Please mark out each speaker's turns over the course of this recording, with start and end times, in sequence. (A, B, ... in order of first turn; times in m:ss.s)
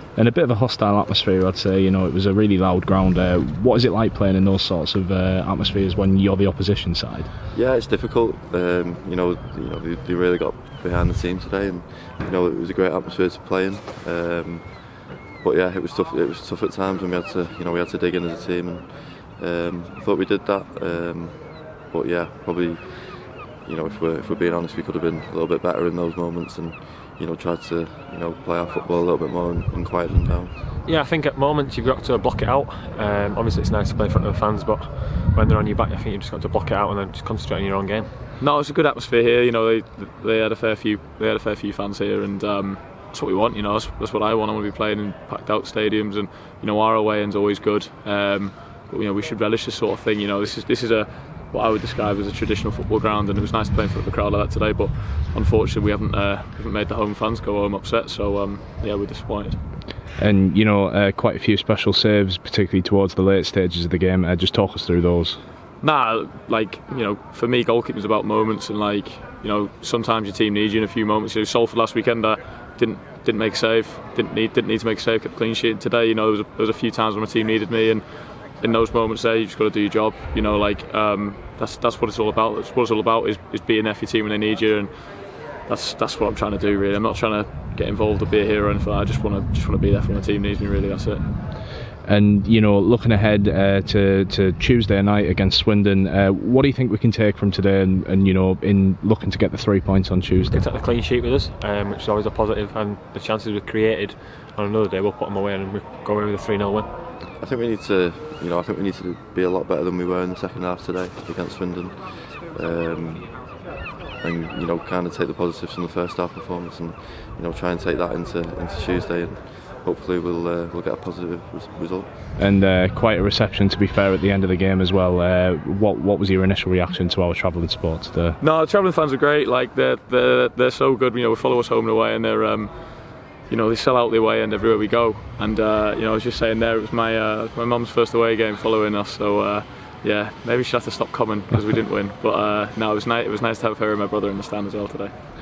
0:00.2-0:07.3 A
0:07.5-0:30.5 B
0:30.8-0:38.1 C
0:38.4-0:59.6 D
1:00.2-1:05.4 A
1:05.8-1:31.2 D
1:32.0-1:40.6 A
1:40.5-1:46.9 C
1:47.4-2:02.1 B
2:02.4-2:08.4 A
2:08.4-2:25.1 D